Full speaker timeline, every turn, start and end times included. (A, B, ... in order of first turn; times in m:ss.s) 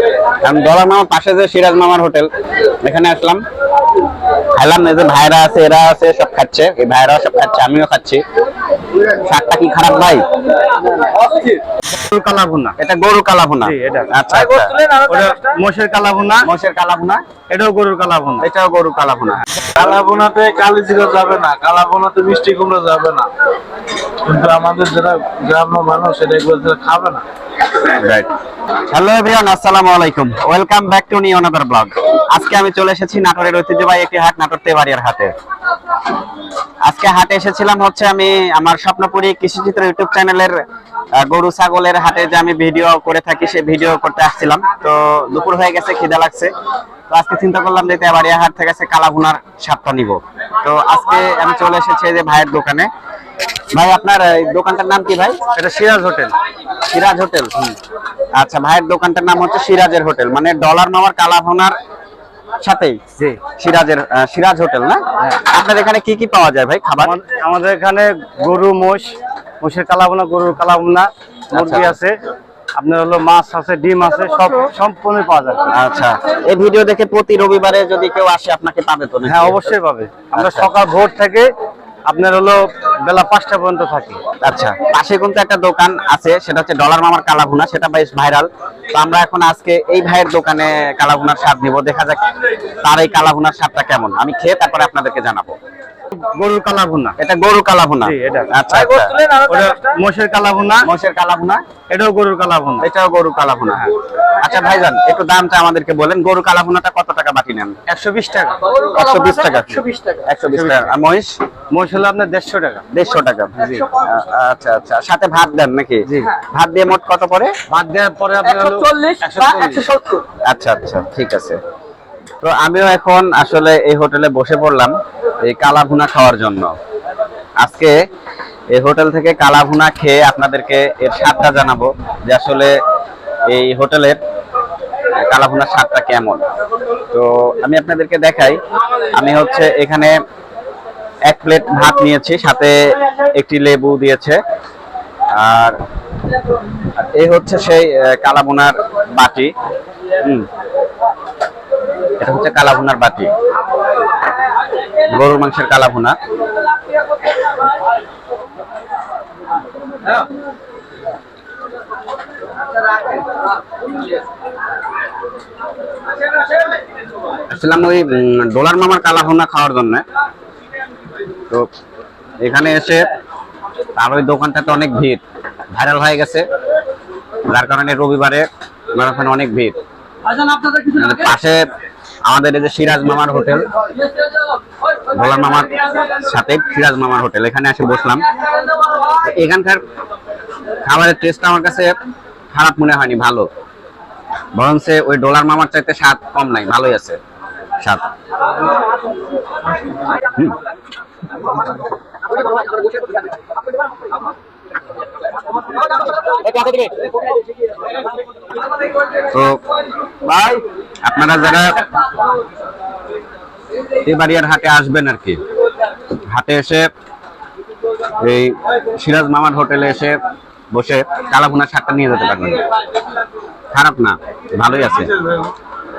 0:00.4-0:02.3 A
0:02.8-0:03.4 A
0:04.6-0:08.2 A
0:09.2-0:10.2 A
0:11.9-0:12.7 B
0:12.8-0:14.7 A
0:13.6-0:16.5 B
0:16.4-0:17.2 A
0:17.5-0:18.5 B
0:18.4-0:19.9 A
0:19.8-0:23.3 C
0:24.2-0:27.2 C
0:28.0-0:28.3 A
0:28.9-0:35.3 A
0:36.8-0:40.6 A
0:41.2-0:46.5 A
0:47.1-0:52.9 A
0:53.7-0:55.4 A
0:55.6-0:56.4 B
0:56.9-0:57.7 A
0:58.3-1:01.7 A
1:02.6-1:03.0 A
1:03.6-1:07.2 A
1:07.0-1:12.2 B
1:11.5-1:11.9 A
1:12.7-1:15.7 B
1:15.7-1:19.8 A
1:19.2-1:21.5 B
1:20.3-1:20.7 A
1:22.1-1:24.2 B
1:24.4-1:32.2 A
1:32.8-1:35.6 A
1:36.1-1:37.2 B
1:37.2-1:39.1 A
1:38.0-1:40.9 B
1:40.8-1:41.6 A
1:41.9-1:42.9 B
1:42.8-1:47.7 A
1:47.9-1:50.9 B
1:48.8-1:51.4 A
1:51.7-1:52.8 B
1:52.9-1:57.5 A
1:53.6-1:53.9 B
1:57.7-2:00.2 B
2:00.4-2:01.6 A
2:02.4-2:06.7 A
2:07.6-2:07.9 A
2:08.7-2:12.7 A
2:13.5-2:14.2 A
2:15.2-2:16.4 A
2:17.1-2:18.6 A
2:19.1-2:20.1 A
2:21.3-2:24.4 A
2:25.3-2:25.8 A
2:27.0-2:29.5 A
2:32.2-2:33.3 A
2:35.1-2:36.2 A
2:47.5-2:50.0 A
2:52.4-2:53.1 A
2:54.0-2:55.2 A
2:55.7-2:56.4 A
2:57.5-2:59.8 A
3:00.7-3:01.6 A
3:02.2-3:03.7 A
3:05.1-3:08.2 A
3:09.2-3:09.8 A
3:10.8-3:11.9 A
3:12.5-3:13.5 A
3:14.5-3:17.2 A
3:17.8-3:18.1 A
3:29.3-3:29.6 A
3:30.2-3:31.8 A
3:34.0-3:35.4 A
3:36.3-3:36.9 A
3:38.2-3:40.2 A
3:40.7-3:42.6 A
3:43.7-3:45.1 A